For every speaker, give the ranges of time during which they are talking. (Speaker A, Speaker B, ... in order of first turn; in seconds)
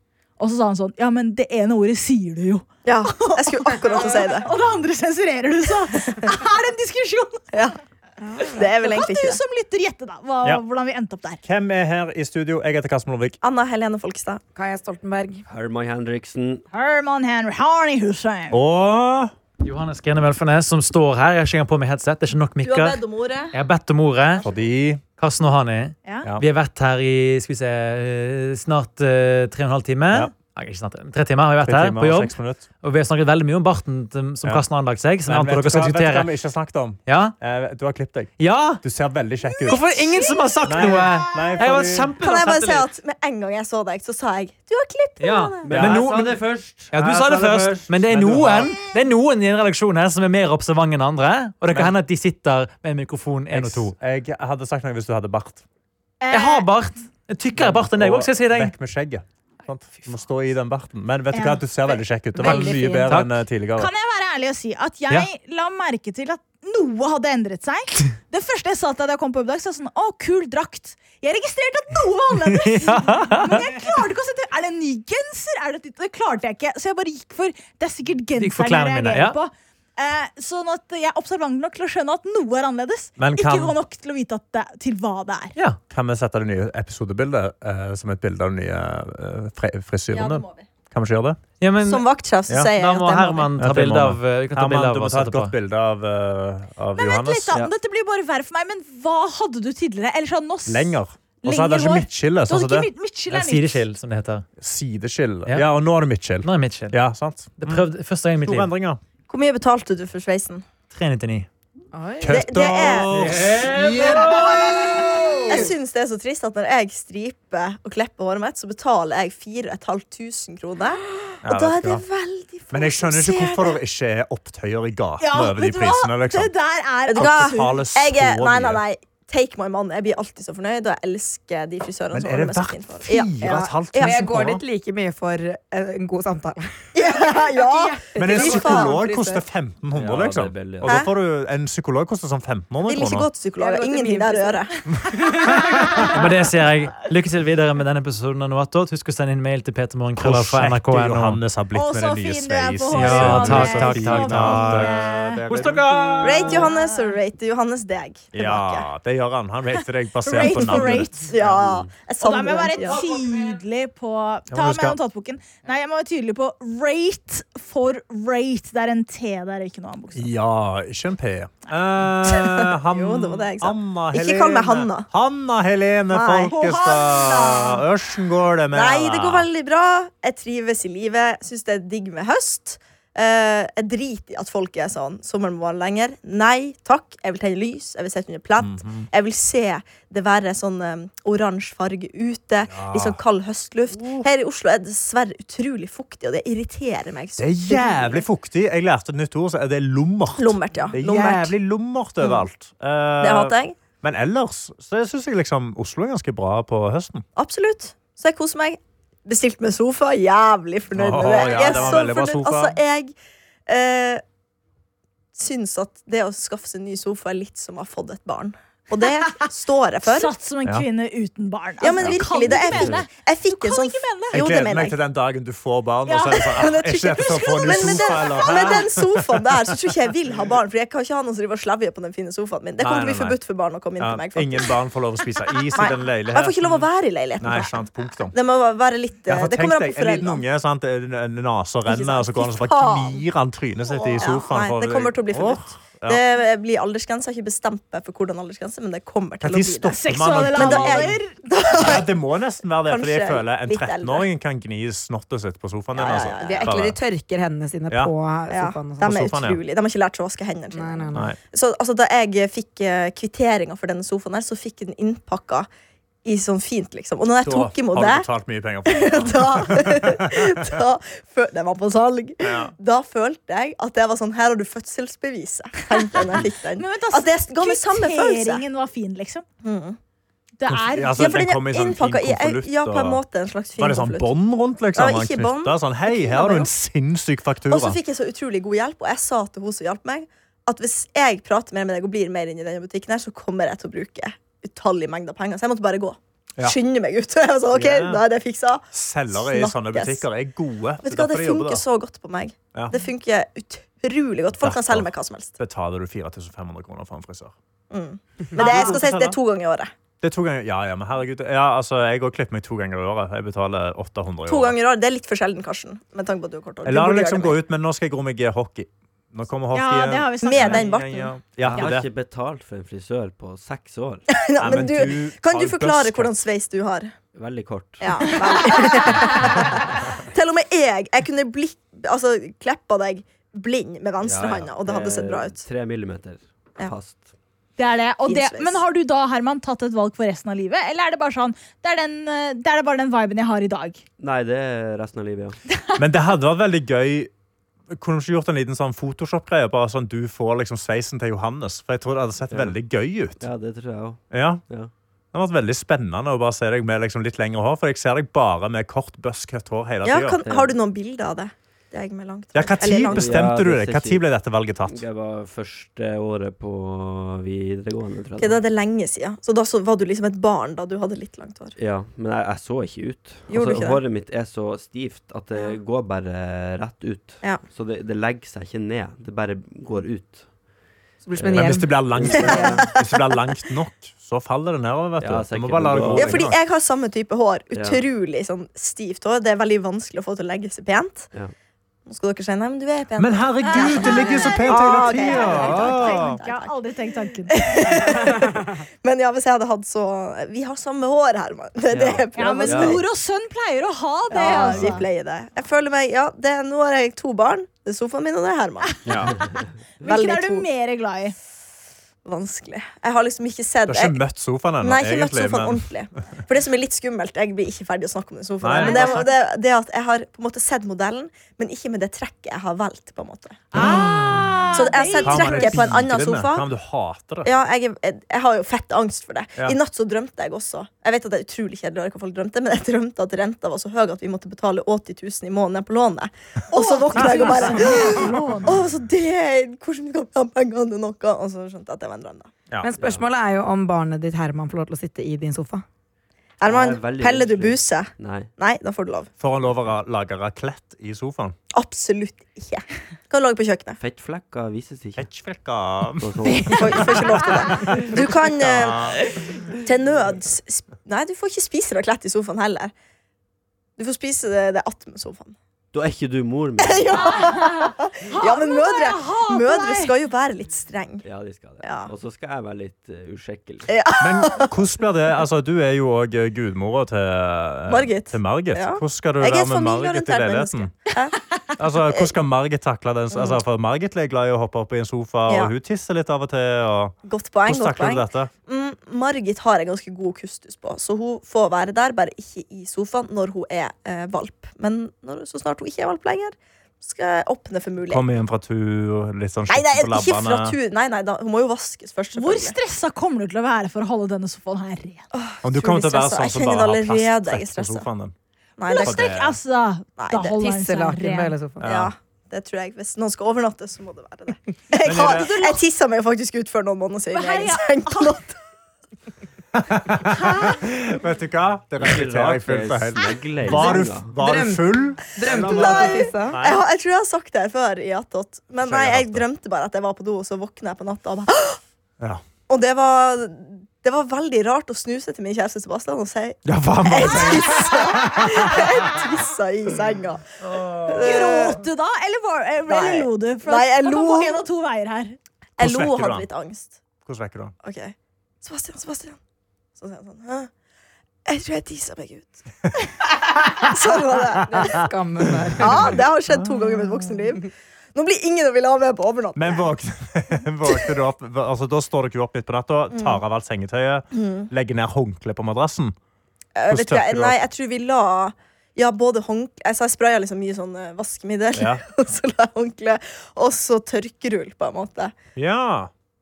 Speaker A: 0.4-7.5, 8.4-11.4, 16.7-18.6, 56.2-56.7, 61.3-62.0, 63.8-85.5, 97.0-103.8, 125.2-127.6, 151.7-155.4, 160.2-161.2, 162.2-170.3, 176.5-177.8, 220.0-224.4, 226.1-226.5, 227.3-228.8, 249.9-251.3, 276.8-279.4, 280.6-281.3, 319.7-320.9, 337.8-344.0, 393.6-398.1, 402.4-405.0, 410.0-411.3, 418.7-419.3, 423.7-425.9, 436.7-438.7, 467.2-470.1, 502.3-505.2, 508.8-511.5, 515.2-515.6, 517.3-518.4, 541.2-545.4
Speaker B: 2.8-4.5, 8.4-9.4, 13.4-14.4, 22.6-23.5, 42.2-45.7, 90.1-90.7, 91.8-93.5, 109.3-110.6, 112.3-113.3, 115.5-123.8, 127.1-134.2, 136.9-139.0, 140.8-141.1, 142.8-144.7, 156.2-158.9, 160.4-163.0, 172.3-175.1, 176.1-176.5, 178.7-198.2, 200.4-201.5, 203.2-203.8, 207.3-213.1, 213.7-214.2, 215.3-220.3, 221.8-224.9, 226.4-234.7, 235.8-240.4, 241.9-243.2, 243.9-250.0, 250.5-252.1, 252.8-254.2, 255.9-256.8, 258.5-265.7, 266.2-268.2, 268.9-278.6, 279.6-280.0, 281.1-284.3, 284.9-286.7, 287.7-300.2, 301.0-305.6, 307.9-309.9, 314.5-317.6, 320.4-321.3, 324.3-327.1, 328.0-335.6, 338.2-338.8, 360.0-363.5, 368.4-371.7, 373.5-374.0, 382.5-382.9, 386.1-391.3, 392.1-396.8, 397.5-403.0, 404.3-409.0, 410.0-410.6, 412.2-414.2, 414.8-424.0, 424.7-426.6, 427.4-442.5, 446.6-449.3, 451.7-454.0, 456.7-459.1, 459.8-462.9, 464.0-465.5, 466.8-471.2, 471.8-472.1, 473.9-474.7, 477.9-481.5, 483.3-483.6, 485.5-485.7, 487.2-498.2, 499.7-502.8, 505.3-508.1, 508.8-509.2, 510.2-510.5, 511.8-518.5, 525.5-531.8, 532.7-540.4, 540.9-541.8, 542.9-544.6, 545.8-547.0, 547.8-549.4, 550.0-550.7, 551.5-552.6, 553.7-555.1, 555.8-559.9, 563.1-563.4, 564.3-564.7, 566.8-575.3
Speaker C: 11.4-13.4, 18.5-19.3, 24.4-25.0, 31.6-32.6, 35.2-39.9, 40.6-42.1, 45.7-46.1, 48.1-48.8, 53.5-55.6, 57.5-63.9, 83.2-83.8, 85.9-91.4, 93.6-97.7, 100.7-102.9, 104.6-107.8, 108.4-109.0, 112.2-115.7, 121.4-122.0, 122.7-126.5, 127.1-128.8, 132.1-134.6, 138.2-143.3, 145.6-146.1, 150.2-155.8, 158.3-161.1, 164.5-165.0, 170.1-179.5, 188.6-189.1, 192.7-193.2, 193.9-194.3, 197.4-207.2, 210.9-212.8, 222.0-223.0, 224.3-229.4, 232.8-233.4, 234.0-236.8, 237.4-238.3, 239.3-246.2, 249.4-251.2, 251.8-257.0, 259.0-259.6, 267.4-270.7, 272.4-272.7, 280.7-283.2, 283.8-288.0, 297.7-298.2, 298.9-301.8, 302.7-303.0, 304.6-307.5, 308.5-309.4, 310.2-314.8, 316.8-322.1, 324.6-326.3, 346.0-347.3, 347.9-353.5, 354.3-354.6, 355.3-360.4, 362.5-365.0, 381.5-386.6, 393.2-396.4, 409.1-409.4, 413.9-415.9, 418.6-419.3, 423.7-427.5, 449.4-451.6, 455.1-456.3, 457.7-459.2, 474.2-480.9, 481.8-488.5, 498.1-500.8, 505.6-508.3, 508.9-509.6, 511.8-512.1, 515.0-515.8, 519.7-526.8, 528.8-529.4, 536.6-539.0, 545.8-546.5, 547.2-547.7, 554.8-555.0, 555.8-556.7, 559.5-566.1, 566.9-567.6, 571.7-572.0, 575.5-576.1
Speaker D: 14.5-15.4, 62.4-63.1, 111.9-112.5, 133.5-139.4, 143.6-144.6, 256.4-259.3, 260.7-261.3, 381.2-382.8, 442.8-445.8, 510.5-511.9, 523.7-526.6, 554.8-556.1
Speaker E: 15.5-16.6, 45.6-47.9, 139.9-141.0, 161.4-161.9, 321.6-324.3, 327.3-329.7, 334.2-337.2, 344.2-345.6, 352.5-352.7, 353.4-354.9, 360.4-360.7, 362.9-364.2, 364.9-368.6, 371.8-380.5, 381.3-382.9, 385.2-386.5, 387.7-388.0, 401.9-403.0, 438.7-438.9, 442.9-443.2, 446.6-448.5, 454.0-455.3, 456.2-458.0, 465.9-467.4, 471.2-473.9, 522.0-524.4
Speaker F: 19.6-24.4, 25.2-36.3, 37.0-37.3, 38.4-38.8, 39.6-42.9, 45.2-46.4, 46.9-53.9, 56.3-58.8, 62.4-63.4, 72.7-73.7, 78.3-79.4, 91.6-92.0, 92.7-95.5, 103.3-104.4, 106.4-107.0, 107.6-108.7, 110.9-111.5, 112.9-115.0, 145.2-151.4, 152.9-154.9, 155.5-156.7